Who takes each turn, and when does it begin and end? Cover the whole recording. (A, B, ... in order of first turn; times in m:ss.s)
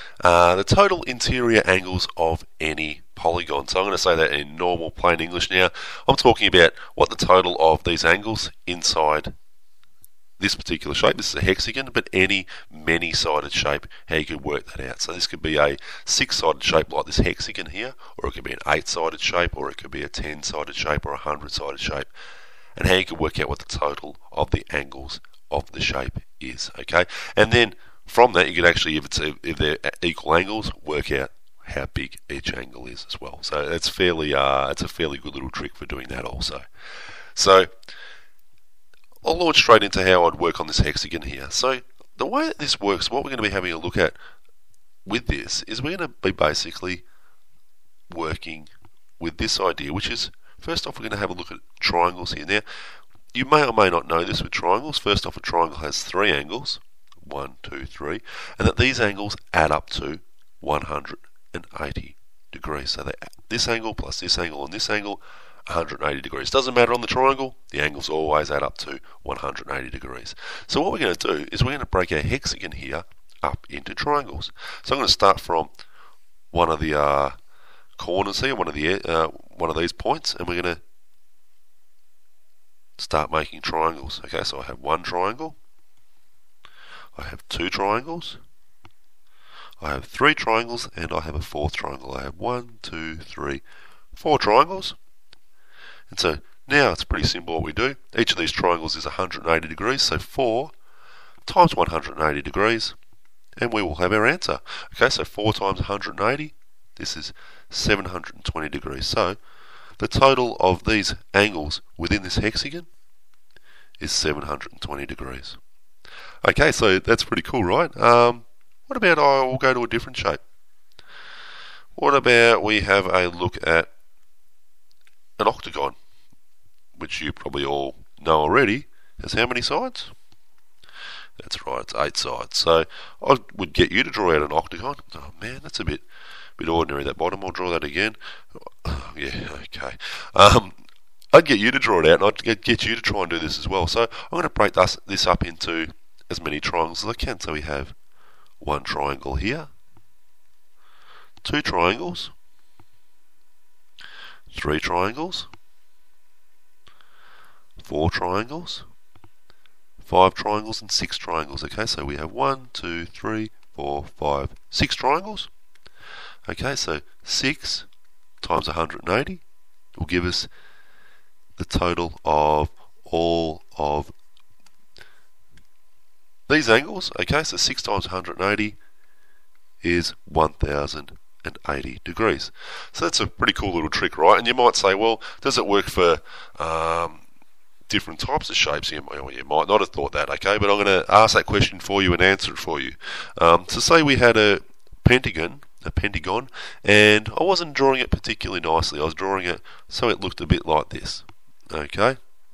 0:00.2-0:09.3 A
0:10.4-0:22.1 A
0:22.8-0:36.6 A
0:37.4-0:37.7 A
0:39.2-0:44.2 A
0:45.0-0:47.0 A
0:48.1-0:52.6 A
0:53.3-1:15.7 A
1:16.5-1:17.4 A
1:18.0-1:20.8 A
1:23.0-1:25.6 A
1:27.2-1:28.4 A
1:29.8-1:33.6 A
1:34.1-1:35.0 A
1:36.1-1:40.7 A
1:41.4-1:42.9 A
1:43.6-1:49.4 A
1:50.0-1:52.9 A
1:54.0-1:55.6 A
1:56.4-2:00.4 A
2:02.0-2:03.9 A
2:05.4-2:06.0 A
2:07.0-2:10.1 A
2:11.4-2:16.0 A
2:16.6-2:20.8 A
2:21.3-2:27.9 A
2:28.6-2:29.7 A
2:31.4-2:32.3 A
2:34.5-2:35.5 A
2:37.8-2:38.8 A
2:40.0-2:45.5 A
2:46.5-2:47.9 A
2:48.4-2:49.4 A
2:50.0-2:50.5 A
2:51.6-2:54.1 A
2:56.5-2:58.8 A
2:59.8-3:07.2 A
3:07.9-3:22.2 A